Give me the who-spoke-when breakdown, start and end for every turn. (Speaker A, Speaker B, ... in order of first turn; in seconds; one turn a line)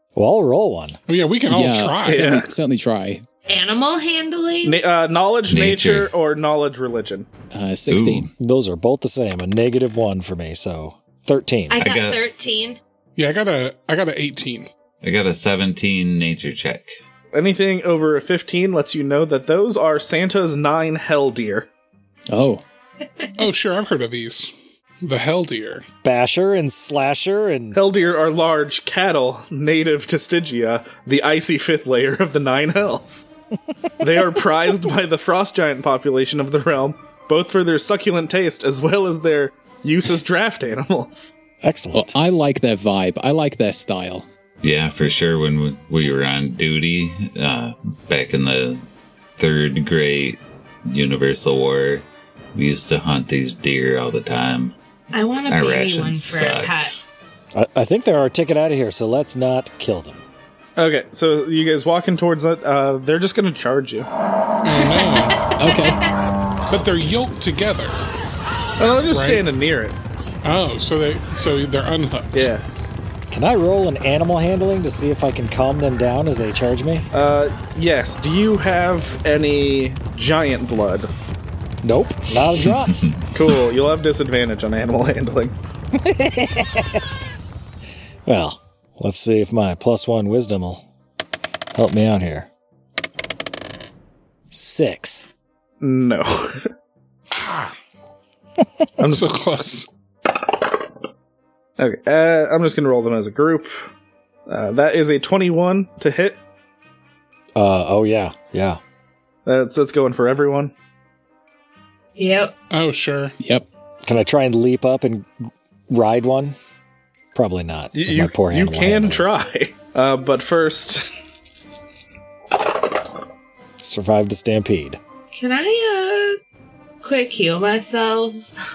Speaker A: 0.1-1.0
Speaker B: 1.1-2.3
Speaker C: 1.5-3.2
Speaker D: 2.0-2.5
Speaker E: 3.5-4.8
Speaker D: 4.6-7.3
Speaker F: 5.5-6.1
Speaker C: 7.5-8.3
Speaker F: 7.9-8.3
Speaker A: 8.4-11.8
Speaker E: 11.7-12.8
Speaker F: 11.8-12.2
Speaker B: 13.2-14.7
Speaker F: 15.0-17.0
Speaker D: 17.3-21.7
Speaker C: 22.3-22.6
Speaker B: 23.4-25.9
Speaker A: 26.0-27.8
Speaker D: 27.7-33.3
Speaker D: 34.0-41.3
Speaker A: 41.6-42.1
Speaker C: 41.9-44.3
Speaker F: 44.6-48.8
Speaker F: 49.4-54.8
Speaker E: 55.1-56.9
Speaker F: 55.5-56.9
Speaker A: 57.5-60.2
Speaker D: 60.8-64.1
Speaker B: 64.6-65.4
Speaker E: 64.7-66.0
Speaker C: 65.6-66.0
Speaker B: 66.7-68.0
Speaker D: 68.8-70.0
Speaker B: 69.1-69.5
Speaker B: 70.4-72.5
Speaker D: 72.3-72.6
Speaker A: 73.3-77.1
Speaker D: 77.1-81.1
Speaker A: 81.8-83.0
Speaker F: 82.9-83.2
Speaker D: 83.3-85.5
Speaker A: 86.0-87.0
Speaker A: 88.3-90.8
Speaker A: 91.7-92.5
Speaker A: 94.5-95.3
Speaker D: 95.8-96.7
Speaker D: 99.0-99.3
Speaker B: 99.0-99.9
Speaker D: 101.8-103.8
Speaker D: 104.5-106.4
Speaker A: 107.6-108.8
Speaker D: 109.5-110.7
Speaker E: 112.2-112.5
Speaker B: 112.7-113.3
Speaker C: 113.4-113.7
Speaker A: 114.0-115.3
Speaker A: 115.9-116.6
Speaker A: 117.3-119.3
Speaker D: 117.9-121.1
Speaker A: 123.8-125.0
Speaker E: 125.3-126.4
Speaker E: 127.0-128.4